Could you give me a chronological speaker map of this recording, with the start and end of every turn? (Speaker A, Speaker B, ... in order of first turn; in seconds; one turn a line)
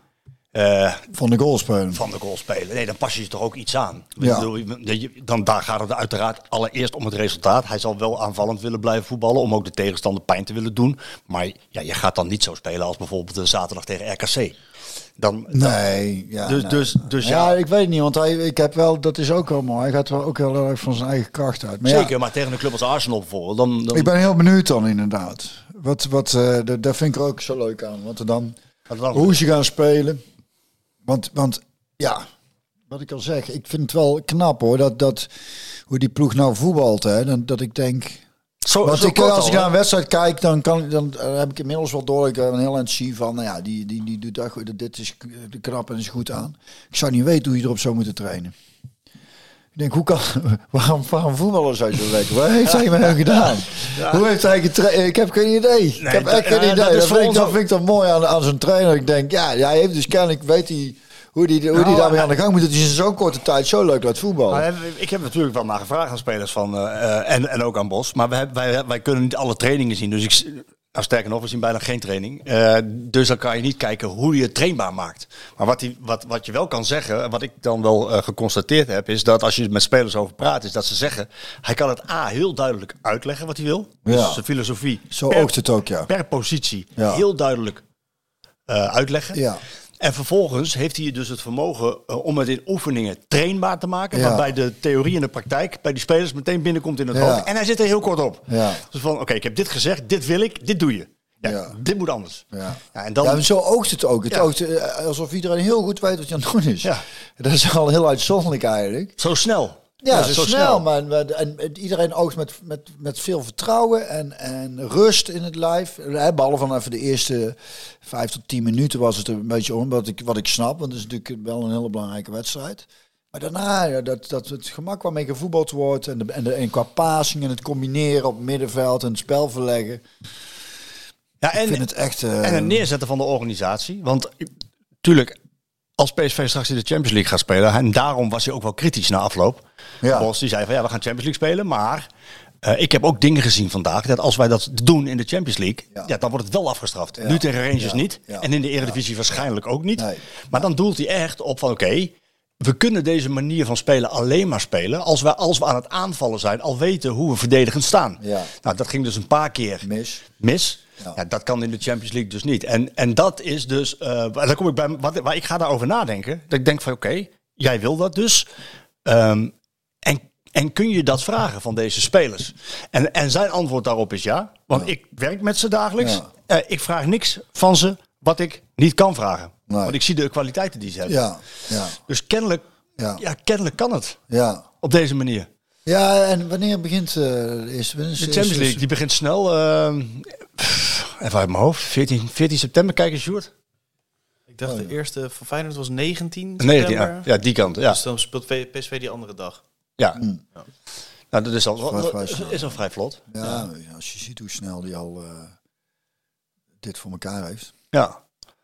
Speaker A: 0.5-1.1
Speaker B: 1.1-2.0
Speaker A: 1.9-14.6
Speaker B: 4.2-4.5
Speaker A: 15.2-15.8
Speaker B: 15.5-22.1
Speaker A: 16.4-17.6
Speaker A: 21.8-24.1
Speaker B: 23.9-28.6
Speaker A: 28.9-29.4
Speaker B: 29.1-30.2
Speaker B: 31.0-32.2
Speaker B: 32.9-35.3
Speaker B: 35.9-38.2
Speaker A: 38.6-39.7
Speaker B: 38.8-48.5
Speaker B: 49.7-64.7
Speaker A: 53.8-54.2
Speaker A: 56.0-57.6
Speaker A: 61.7-62.3
Speaker A: 64.5-85.5
Speaker B: 84.0-84.4
Speaker B: 85.1-86.1
Speaker A: 86.1-87.8
Speaker B: 87.0-87.2
Speaker A: 88.7-89.4
Speaker B: 89.3-89.6
Speaker A: 90.0-103.4
Speaker B: 94.1-94.5
Speaker B: 97.1-97.5
Speaker B: 98.5-98.8
Speaker B: 101.4-101.8
Speaker B: 102.5-109.1
Speaker A: 109.2-110.8
Speaker B: 110.0-130.0
Speaker A: 131.4-131.8
Speaker B: 131.6-132.8
Speaker A: 132.4-134.5
Speaker A: 135.0-135.4
Speaker A: 136.0-142.1
Speaker B: 140.0-140.3
Speaker A: 142.6-168.5
Speaker B: 147.2-148.9
Speaker B: 149.9-150.6
Speaker B: 158.2-158.5
Speaker B: 159.8-160.2
Speaker A: 169.0-181.2
Speaker B: 176.0-176.2
Speaker B: 179.7-179.9
Speaker B: 181.1-181.9
Speaker A: 182.0-182.6
Speaker A: 183.2-184.2
Speaker B: 184.3-184.6
Speaker A: 184.8-185.5
Speaker B: 185.8-188.8
Speaker A: 188.2-193.5
Speaker C: 194.5-197.3
Speaker B: 194.6-194.9
Speaker A: 196.6-198.0
Speaker C: 197.8-199.6
Speaker A: 201.3-203.6
Speaker B: 201.8-202.7
Speaker B: 203.3-205.5
Speaker B: 206.8-207.7
Speaker A: 207.9-208.2